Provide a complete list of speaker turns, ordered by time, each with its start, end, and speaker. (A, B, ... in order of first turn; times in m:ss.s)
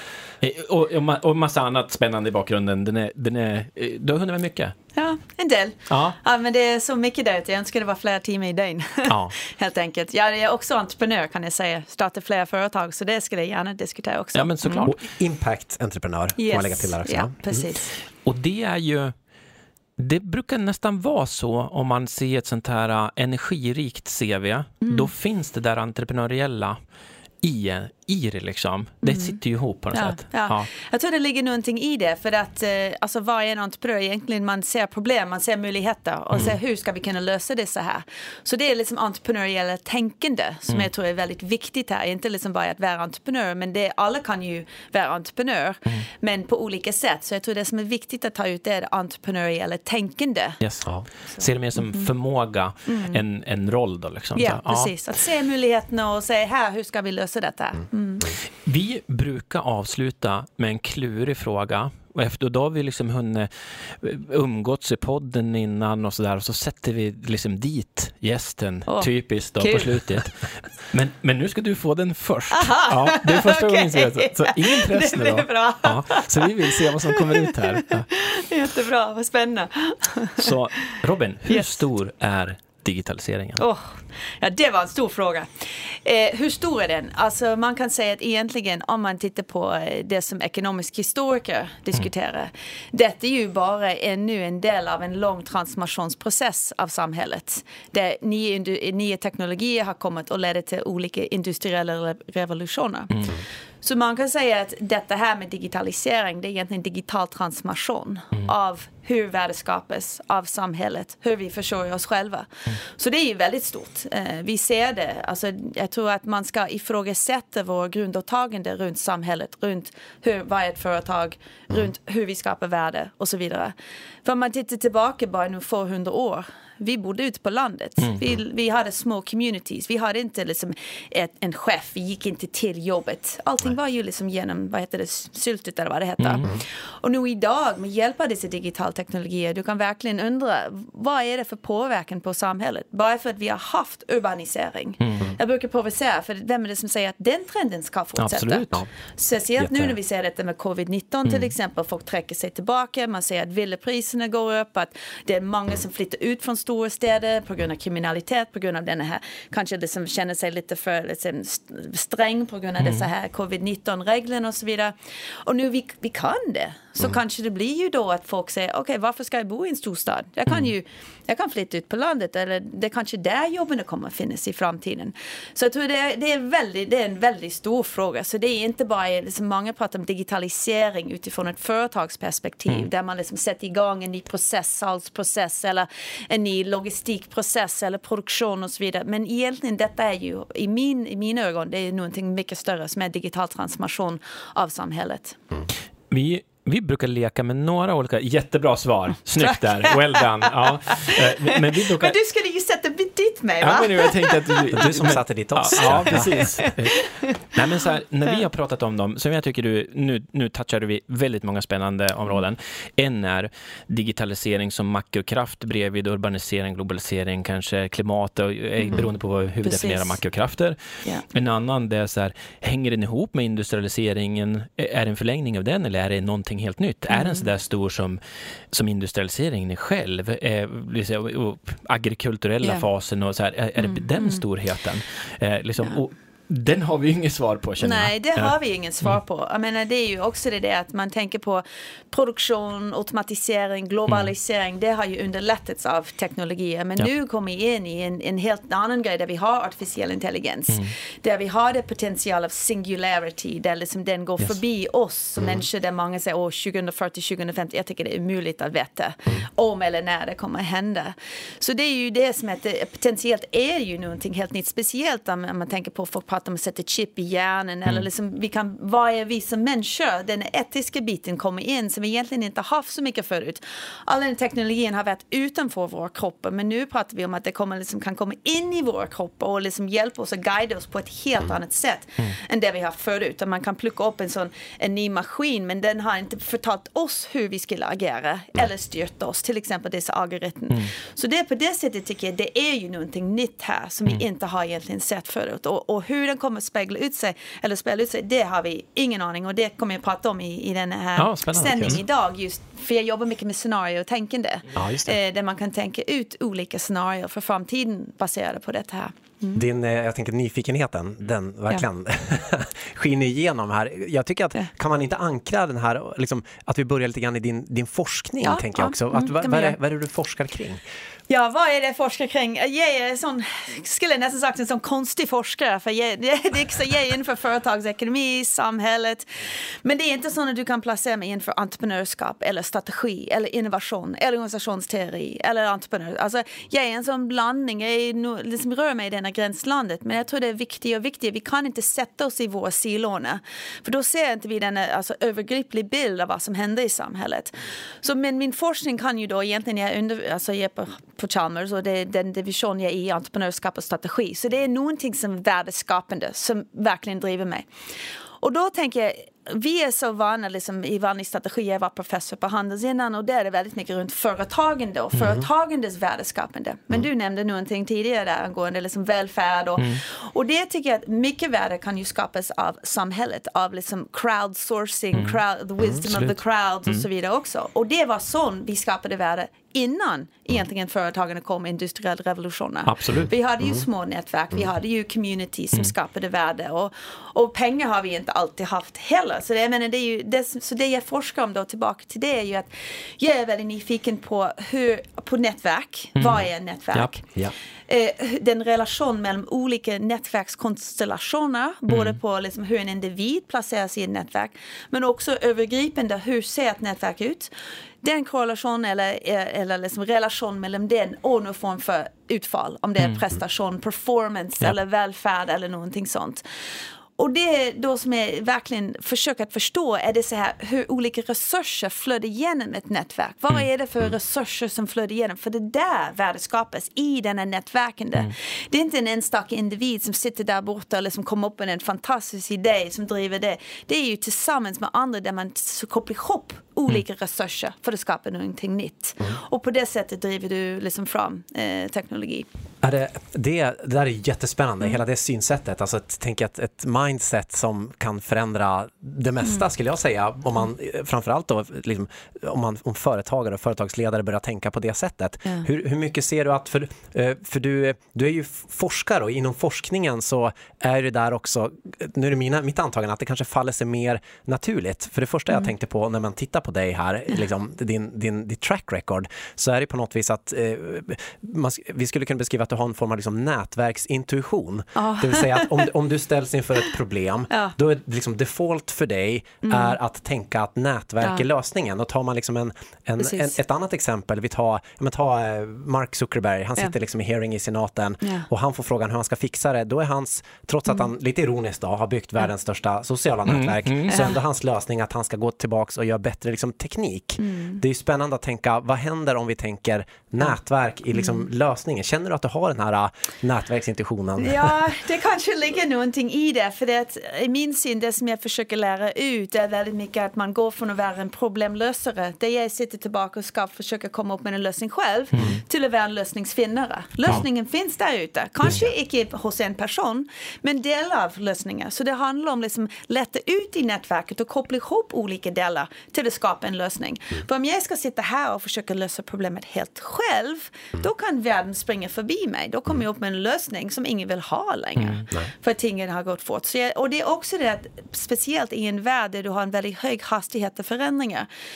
0:00.4-0:04.8 A
0:05.0-0:14.9 B
0:05.9-0:06.2 A
0:09.1-0:09.3 A
0:14.4-0:15.0 A
0:14.8-0:17.7 C
0:16.4-0:17.9 B
0:18.2-0:19.1 A
0:20.0-0:26.8 A
0:24.8-0:25.1 B
0:27.4-0:30.7 A
0:29.0-0:29.4 B
0:29.9-0:50.6 B
0:50.6-0:54.9 A
0:51.3-0:52.1 B
0:52.9-0:53.2 B
0:54.4-0:58.3 B
0:58.6-1:18.1 A
1:08.9-1:10.0 B
1:12.5-1:20.5 B
1:20.4-1:23.6 A
1:21.5-1:21.8 B
1:23.6-2:44.9 B
2:16.2-2:16.5 A
2:25.0-2:25.3 A
2:28.2-2:28.8 A
2:29.6-2:29.9 C
2:42.8-2:43.1 A
2:45.5-3:15.4 B
3:16.1-3:22.2 A
3:19.4-3:24.9 B
3:23.6-3:48.2 A
3:24.7-3:26.6 C
3:26.1-3:27.3 B
3:38.8-3:39.1 B
3:39.6-3:40.2 B
3:47.1-3:47.5 B
3:48.7-3:58.5 A
3:53.8-3:54.4 B
3:57.8-5:09.6 B
5:01.2-5:02.0 A
5:04.8-5:05.2 C
5:09.5-5:20.8 C
5:18.4-5:19.8 B
5:21.3-5:57.7 B
5:58.4-6:37.3 B
6:15.1-6:15.4 A
6:16.0-6:17.1 A
6:22.9-6:23.3 A
6:36.2-6:37.2 A
6:37.9-6:47.5 B
6:41.9-6:42.2 A
6:48.0-6:56.4 B
6:57.2-7:22.5 B
7:22.8-8:24.8 C
7:55.0-7:55.9 B
7:59.6-8:00.0 B
8:03.2-8:03.6 B
8:13.5-8:14.2 A
8:14.1-8:14.3 B
8:17.4-8:17.8 B
8:24.4-9:01.5 B
8:55.0-8:55.2 A